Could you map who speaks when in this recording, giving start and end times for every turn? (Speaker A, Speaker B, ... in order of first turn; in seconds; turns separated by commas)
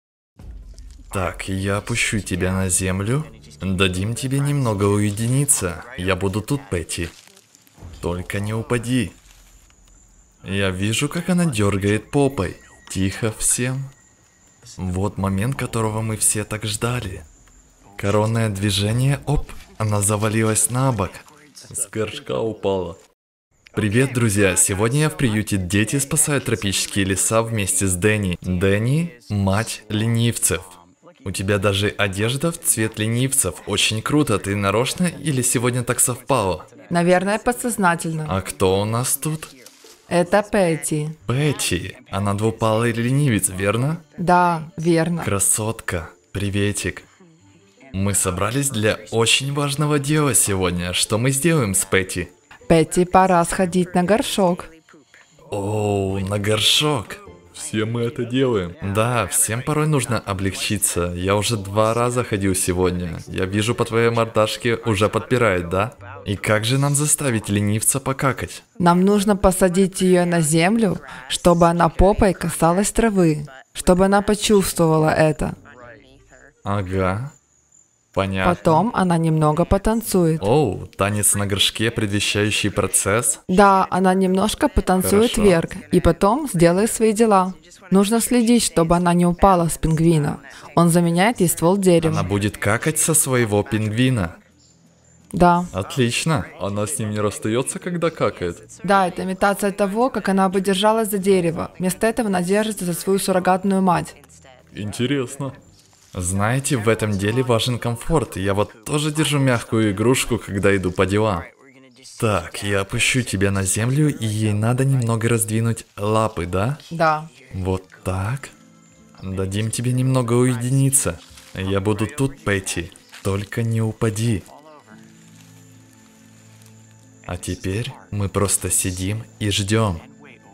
Speaker A: 1.1-7.1, Speaker A: 8.0-9.2, Speaker A: 10.4-13.9, Speaker A: 14.8-17.3, Speaker A: 18.0-21.2, Speaker B: 21.7-23.0, Speaker A: 23.7-36.7, Speaker C: 36.9-38.4, Speaker A: 38.2-39.5, Speaker C: 40.1-41.2, Speaker A: 41.3-44.0, Speaker C: 44.2-45.3, Speaker A: 45.2-47.1, Speaker A: 47.9-52.3, Speaker C: 52.7-54.7, Speaker A: 55.5-57.2, Speaker B: 57.5-58.8, Speaker A: 58.8-68.6, Speaker C: 68.8-75.6, Speaker A: 76.6-77.3, Speaker A: 78.1-78.9, Speaker C: 78.4-80.5, Speaker A: 80.4-83.4, Speaker C: 83.5-92.3, Speaker A: 85.0-85.6, Speaker A: 92.0-94.4, Speaker C: 95.3-95.7, Speaker A: 95.7-96.5, Speaker B: 96.5-98.6, Speaker C: 98.8-104.2, Speaker B: 104.7-105.6, Speaker A: 106.1-111.5, Speaker A: 112.2-116.8, Speaker C: 116.9-117.3, Speaker A: 117.5-118.5, Speaker A: 119.2-124.5, Speaker A: 127.3-130.1